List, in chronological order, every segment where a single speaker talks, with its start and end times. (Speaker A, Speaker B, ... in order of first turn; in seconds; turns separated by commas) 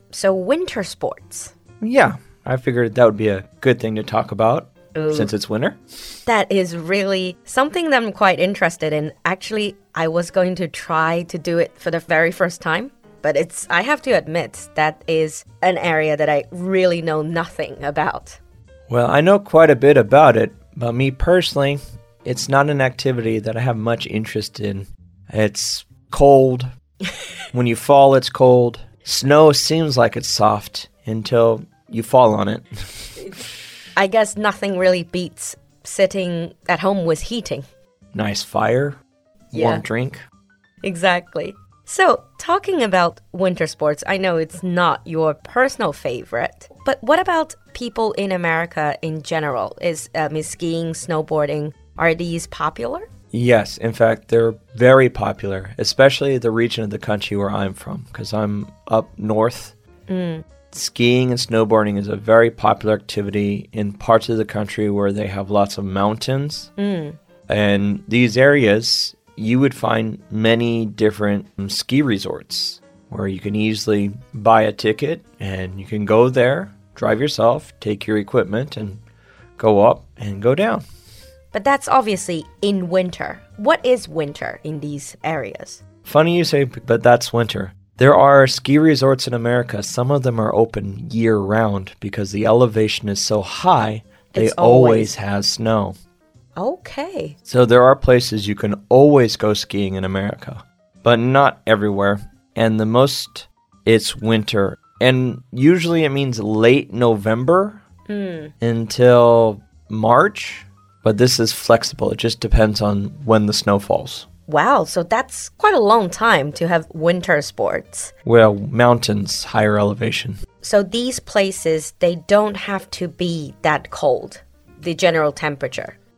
Speaker A: 0.1-1.5, Speaker B: 1.8-5.8, Speaker A: 5.0-5.3, Speaker A: 6.3-18.4, Speaker B: 18.9-26.7, Speaker B: 27.5-32.7, Speaker A: 34.0-37.7, Speaker B: 38.1-39.0, Speaker B: 39.5-40.2, Speaker A: 39.5-39.8, Speaker A: 40.8-53.0, Speaker B: 53.3-59.8, Speaker A: 60.1-60.5, Speaker B: 60.7-66.7, Speaker A: 66.8-67.2, Speaker B: 67.5-79.0, Speaker B: 79.6-80.8, Speaker A: 81.5-85.8, Speaker B: 86.1-96.0, Speaker A: 94.3-95.1, Speaker A: 96.6-97.4, Speaker B: 97.5-107.8, Speaker A: 108.1-108.5, Speaker B: 108.6-114.3, Speaker A: 114.5-118.1, Speaker B: 118.2-120.4, Speaker A: 120.6-126.0